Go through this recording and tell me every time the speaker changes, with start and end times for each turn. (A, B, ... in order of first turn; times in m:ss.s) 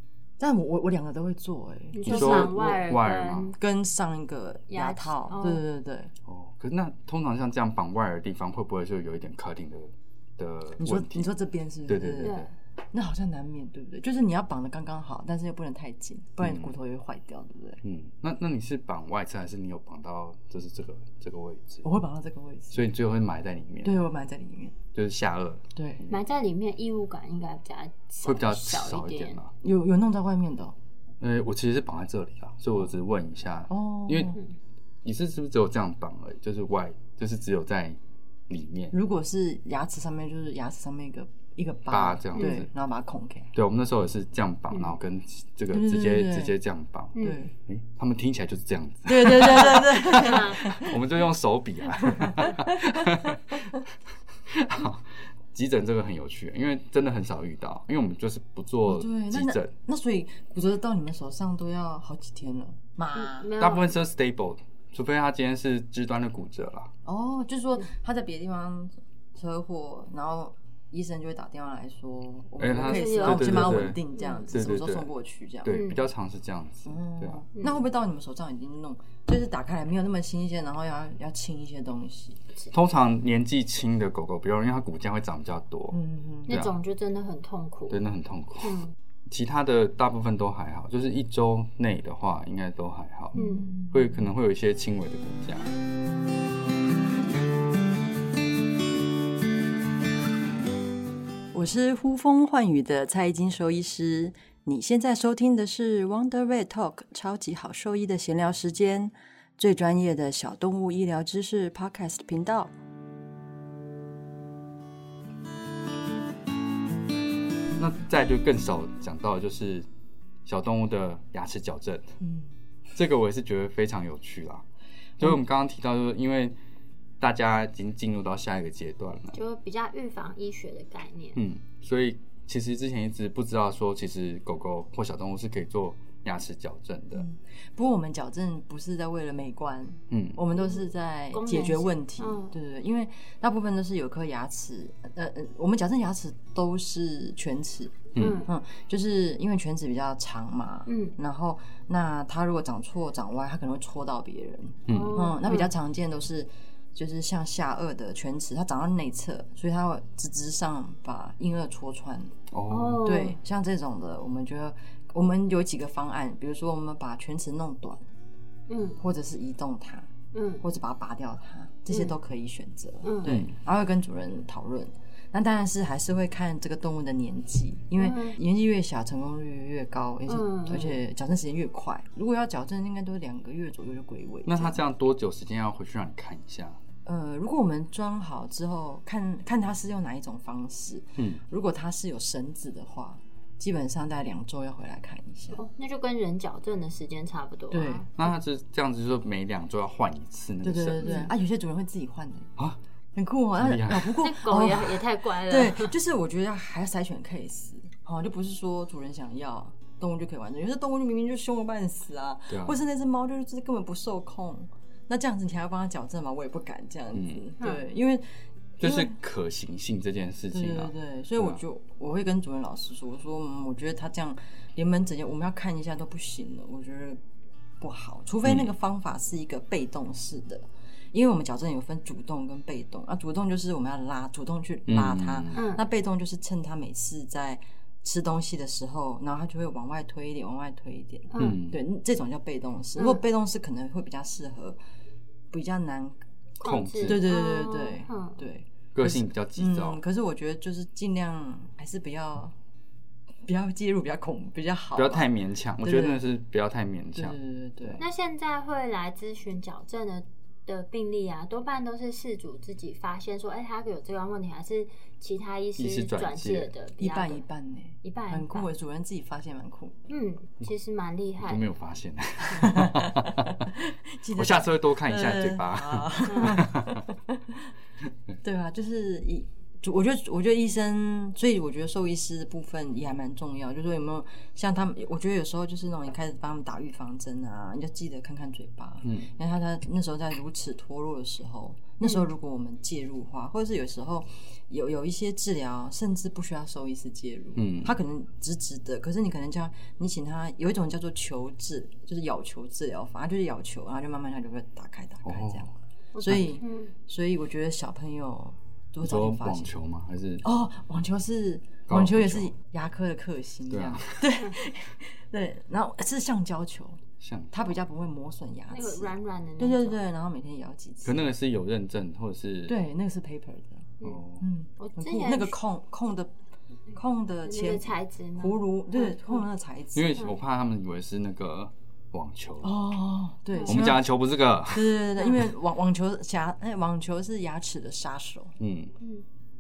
0:00.4-0:02.8 A
0:01.9-0:03.6 B
0:02.1-0:03.5 C
0:03.6-0:06.1 A
0:04.7-0:05.6 B
0:06.3-0:11.3 C
0:10.8-0:17.8 A
0:11.9-0:12.4 C
0:12.2-0:12.5 B
0:16.4-0:16.7 C
0:17.8-0:21.9 C
0:21.8-0:22.9 A
0:22.7-0:24.0 C
0:23.8-0:24.8 A
0:24.9-0:26.0 C
0:25.8-0:26.0 A
0:26.1-0:29.4 B
0:28.2-0:29.5 C
0:29.6-0:30.8 A
0:31.2-0:34.4 C
0:33.7-0:34.4 A
0:35.0-0:39.0 C
0:38.9-0:43.5 A
0:41.9-0:42.7 C
0:43.5-0:53.7 C
0:45.7-0:46.6 A
0:47.2-0:47.4 B
0:47.2-0:47.5 A
0:49.1-0:51.0 A
0:50.1-0:50.6 B
0:52.0-0:53.8 A
0:54.5-0:59.7 C
0:58.9-1:03.5 A
1:03.1-1:03.9 B
1:03.6-1:06.9 C
1:07.0-1:15.8 A
1:12.6-1:15.1 C
1:12.8-1:14.5 B
1:15.6-1:17.4 C
1:15.7-1:16.0 B
1:16.9-1:22.4 A
1:22.7-1:26.7 C
1:25.9-1:26.6 A
1:26.5-1:28.0 B
1:27.9-1:33.4 C
1:28.6-1:28.9 B
1:33.4-1:33.7 B
1:33.4-1:34.0 A
1:33.9-1:35.7 C
1:41.5-1:52.7 A
1:57.8-1:59.9 C
2:00.4-2:02.1 C
2:02.2-2:02.5 A
2:03.0-2:04.7 C
2:05.2-2:06.6 C
2:07.2-2:09.4 C
2:09.3-2:11.4 B
2:11.4-2:17.3 C
2:17.2-2:42.4 A
2:20.1-2:20.4 C
2:21.3-2:22.6 B
2:28.2-2:28.4 C
2:28.2-2:28.5 B
2:30.9-2:31.2 B
2:34.9-2:35.2 C
2:34.9-2:35.7 B
2:42.5-2:43.1 C
2:42.7-2:43.4 B
2:43.0-2:48.0 A
2:48.7-2:49.0 B
2:49.0-2:50.1 A
2:50.3-2:50.6 B
2:50.6-3:04.8 A
2:53.0-2:53.4 B
2:53.2-2:53.5 C
2:58.0-2:58.4 B
3:00.3-3:01.0 B
3:04.5-3:06.8 C
3:07.0-3:15.6 A
3:15.6-3:18.1 B
3:17.7-3:18.1 A
3:18.2-3:21.3 C
3:20.6-3:22.5 A
3:21.0-3:21.3 B
3:23.2-3:39.1 A
3:23.6-3:24.2 C
3:24.2-3:25.9 B
3:32.5-3:32.8 C
3:37.1-3:37.5 C
3:37.6-3:37.8 B
3:38.8-3:41.6 C
3:40.5-3:47.2 A
3:47.8-4:04.8 A
3:54.9-3:55.6 C
3:55.5-3:55.8 B
4:01.3-4:01.6 B
4:01.4-4:01.8 C
4:03.0-4:03.2 B
4:05.5-4:06.2 A
4:06.6-4:07.2 C
4:06.6-4:08.4 B
4:07.0-4:12.5 A
4:09.0-4:10.0 C
4:13.5-4:15.3 A
4:15.0-4:18.0 C
4:15.8-4:16.2 A
4:17.2-4:18.0 A
4:18.0-4:27.4 B
4:25.8-4:26.7 C
4:27.0-4:30.0 A
4:28.0-4:28.7 B
4:30.1-4:31.7 B
4:31.4-4:33.7 C
4:32.6-4:37.7 A
4:34.3-4:37.1 C
4:36.3-4:36.6 B
4:38.4-5:05.7 A
4:49.0-4:49.3 C
4:57.6-4:58.0 C
5:05.2-5:05.7 C
5:06.1-5:06.9 B
5:06.2-5:09.7 A
5:09.0-5:10.4 C
5:10.4-5:21.3 A
5:11.9-5:12.5 C
5:13.7-5:14.3 C
5:17.2-5:17.8 C
5:18.7-5:20.0 B
5:21.0-5:22.8 C
5:22.7-5:26.3 A
5:24.0-5:24.4 C
5:24.8-5:25.6 B
5:26.9-5:30.3 A
5:27.4-5:29.4 B
5:30.0-5:32.8 C
5:32.6-5:38.6 A
5:33.5-5:34.0 B
5:33.7-5:35.4 C
5:38.6-5:38.9 C